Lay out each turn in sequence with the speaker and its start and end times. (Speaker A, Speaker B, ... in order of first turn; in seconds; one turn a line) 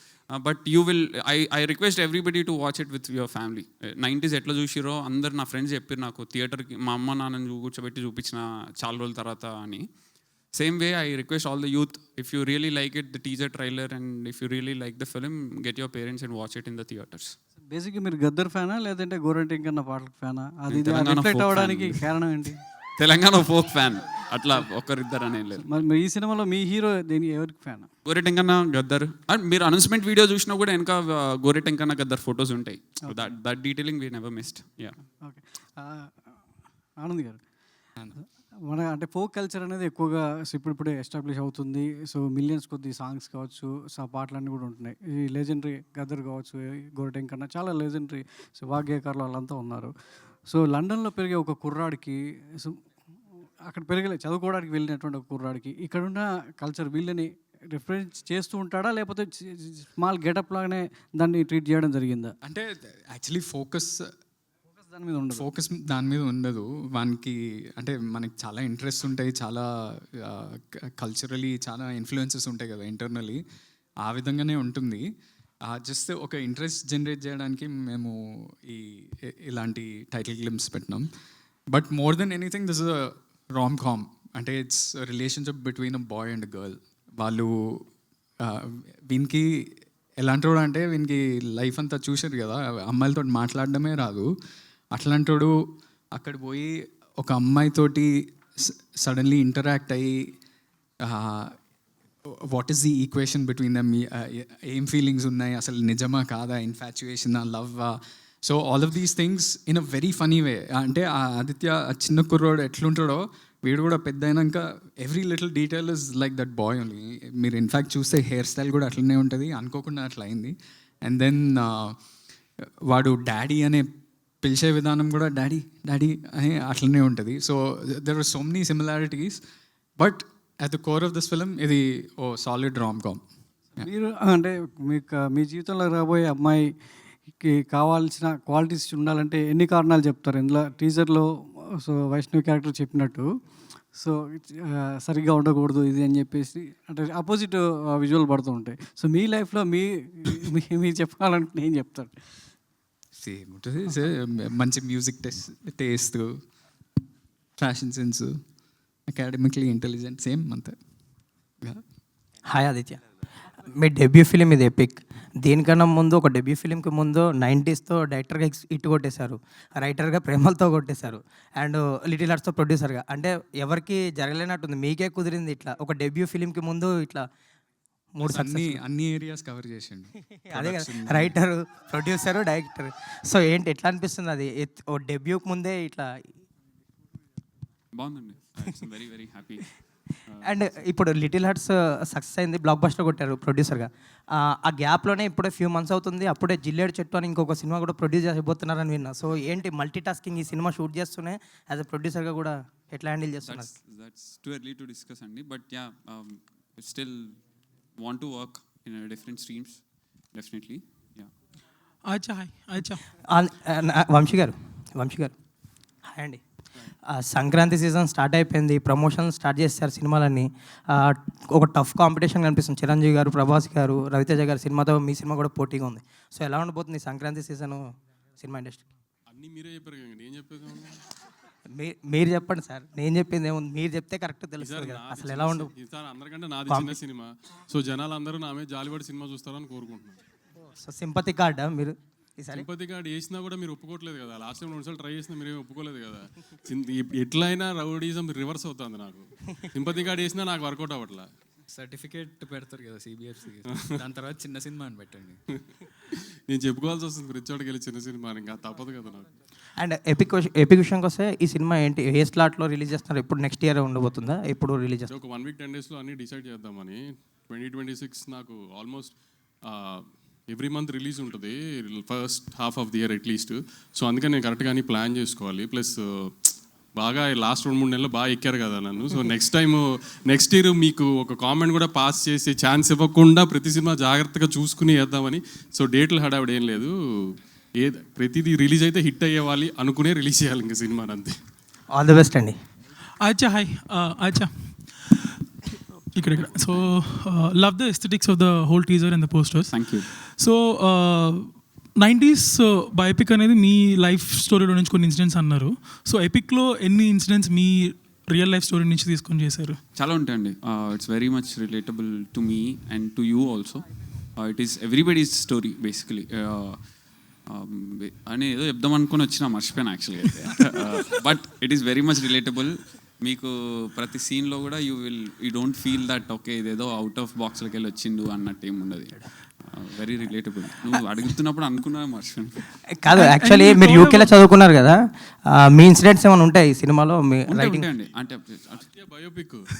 Speaker A: 0.4-9.8
Speaker A: 10.5-17.4
Speaker B: 17.7-22.6
Speaker A: 20.7-22.1
Speaker A: 23.0-25.7
Speaker B: 25.6-27.9
Speaker A: 28.1-35.0
Speaker B: 35.2-36.5
Speaker B: 37.0-37.4
Speaker B: 38.2-49.9
Speaker B: 50.5-52.8
Speaker B: 53.6-62.3
Speaker C: 62.4-64.1
Speaker B: 64.7-65.4
Speaker C: 65.3-73.4
Speaker C: 74.0-75.0
Speaker C: 75.6-81.1
Speaker C: 81.7-87.8
Speaker C: 88.4-94.3
Speaker C: 94.9-95.5
Speaker C: 96.1-100.3
Speaker C: 101.0-101.5
Speaker C: 102.2-122.0
Speaker C: 122.9-123.9
Speaker C: 124.4-129.4
Speaker C: 130.0-133.2
Speaker B: 133.8-136.7
Speaker B: 137.4-141.3
Speaker B: 141.8-143.3
Speaker B: 143.9-152.4
Speaker C: 153.2-156.3
Speaker C: 157.6-158.3
Speaker C: 159.1-160.8
Speaker D: 162.5-163.0
Speaker D: 163.8-177.2
Speaker D: 178.2-178.8
Speaker C: 178.2-181.4
Speaker D: 180.4-186.1
Speaker A: 187.9-189.7
Speaker D: 190.4-193.9
Speaker D: 194.6-203.7
Speaker A: 203.4-207.4
Speaker A: 208.0-211.3
Speaker E: 212.0-213.1
Speaker D: 213.1-215.3
Speaker D: 216.1-216.4
Speaker D: 217.1-227.8
Speaker D: 228.4-228.8
Speaker F: 229.3-231.0
Speaker D: 231.7-235.7
Speaker F: 234.6-240.2
Speaker D: 236.7-236.9
Speaker D: 240.7-242.7
Speaker F: 242.5-251.3
Speaker C: 251.7-255.4
Speaker F: 256.5-259.3
Speaker D: 259.8-265.1
Speaker F: 265.1-269.1
Speaker F: 269.6-291.4
Speaker D: 291.9-292.6
Speaker E: 293.2-295.4
Speaker E: 296.1-309.8
Speaker A: 299.7-300.1
Speaker A: 309.9-316.8
Speaker A: 317.5-332.6
Speaker D: 333.0-335.0
Speaker E: 333.1-334.3
Speaker D: 335.5-337.9
Speaker A: 337.5-338.9
Speaker F: 338.8-339.6